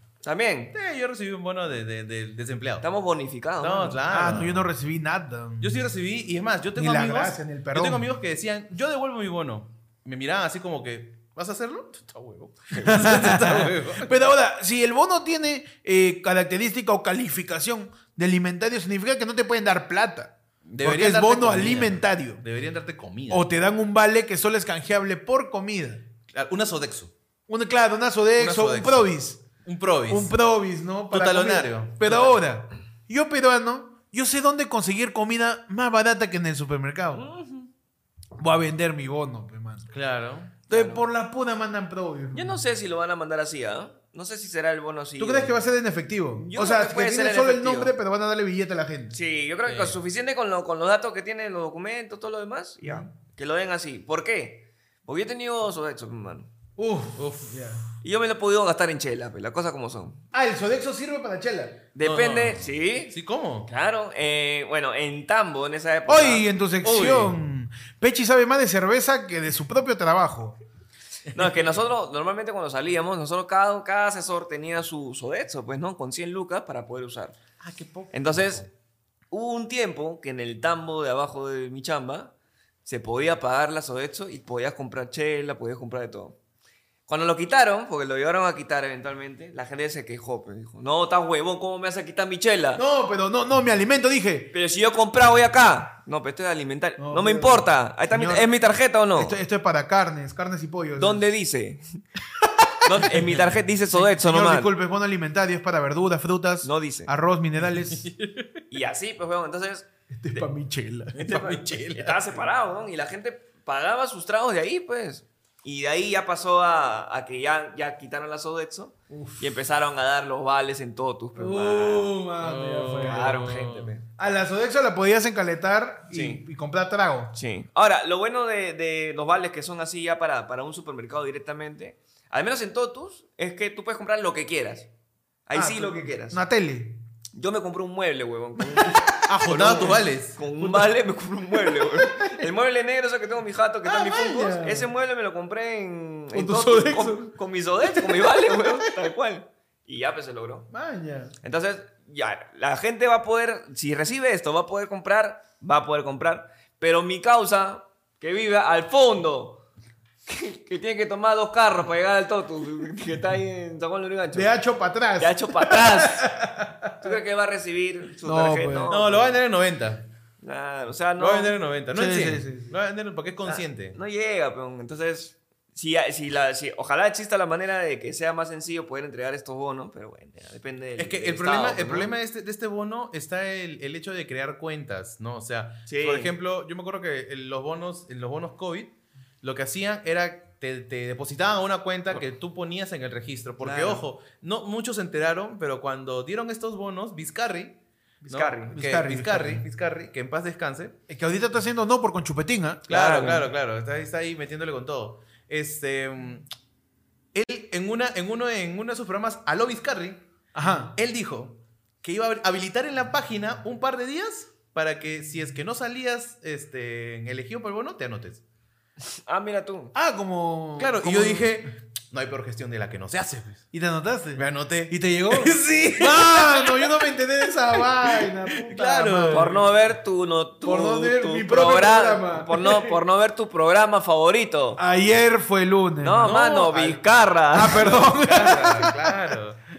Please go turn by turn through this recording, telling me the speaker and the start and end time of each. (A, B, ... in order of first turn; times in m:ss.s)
0:00.2-0:00.8 A
0:00.7-0:02.9 B
0:02.8-0:04.0 A
0:03.6-0:04.7 B
0:04.1-0:05.7 C
0:05.6-0:14.1 B
0:06.8-0:08.0 C
0:12.8-0:22.4 C
0:20.6-0:23.5 B
0:23.3-0:26.0 C
0:26.3-0:27.1 B
0:27.5-0:29.4 C
0:28.4-0:29.1 B
0:29.6-0:30.3 B
0:30.1-0:37.2 C
0:31.1-0:32.3 B
0:37.1-0:37.7 A
0:38.4-0:39.9 C
0:39.9-0:40.6 B
0:40.7-0:41.0 A
0:40.7-0:42.6 C
0:42.3-0:45.6 A
0:45.2-0:49.1 C
0:46.4-0:47.9 A
0:49.1-0:56.5 A
0:49.6-0:50.0 B
0:52.8-0:53.1 C
0:56.8-0:57.8 C
0:57.1-0:57.6 B
0:58.0-1:00.2 A
1:00.3-1:01.8 C
1:01.9-1:03.1 A
1:02.0-1:03.7 B
1:03.7-1:06.5 A
1:06.1-1:10.6 C
1:06.8-1:07.4 B
1:11.3-1:17.4 A
1:17.6-1:18.7 B
1:18.1-1:18.6 A
1:19.3-1:22.3 A
1:22.9-1:26.4 A
1:27.1-1:32.8 A
1:32.8-1:34.5 C
1:34.5-1:39.4 A
1:37.0-1:38.5 C
1:39.2-1:41.3 C
1:41.0-1:42.0 A
1:42.6-1:43.0 C
1:42.8-1:44.7 A
1:43.9-1:48.1 C
1:46.6-1:47.1 A
1:47.7-1:48.6 B
1:48.7-1:50.4 A
1:50.1-1:51.3 C
1:51.1-1:52.4 B
1:51.2-2:02.1 A
1:59.1-1:59.5 C
2:01.4-2:03.5 C
2:02.4-2:03.9 B
2:03.0-2:04.0 A
2:04.2-2:07.3 C
2:06.1-2:06.4 A
2:07.4-2:14.9 A
2:15.5-2:16.4 A
2:15.5-2:17.0 C
2:17.3-2:30.7 A
2:18.6-2:19.9 C
2:19.3-2:20.4 B
2:20.6-2:20.9 C
2:21.6-2:22.4 C
2:23.8-2:24.9 C
2:26.3-2:28.9 C
2:30.7-2:31.3 C
2:31.4-2:39.6 A
2:40.3-2:44.5 A
2:44.3-2:47.1 C
2:45.2-2:46.3 A
2:47.0-2:49.4 A
2:48.2-2:48.9 C
2:48.9-2:50.0 B
2:50.4-2:51.6 A
2:51.2-2:54.0 B
2:51.9-2:52.7 C
2:53.4-3:02.1 A
3:01.0-3:17.8 B
3:05.9-3:06.3 A
3:13.6-3:14.0 A
3:18.2-3:18.7 A
3:18.3-3:21.0 B
3:18.7-3:19.6 C
3:21.1-3:22.9 C
3:22.9-3:26.5 B
3:22.9-3:23.5 A
3:27.3-3:38.4 B
3:30.5-3:30.9 C
3:39.1-3:39.9 A
3:39.9-3:41.6 C
3:40.8-3:43.6 B
3:43.7-3:49.6 C
3:44.4-3:46.9 B
3:47.8-3:49.7 B
3:49.3-3:54.8 A
3:50.6-3:53.0 C
3:54.8-3:56.4 C
3:56.0-3:58.7 A
3:56.2-3:57.0 B
3:57.5-3:59.1 C
3:57.7-3:59.6 B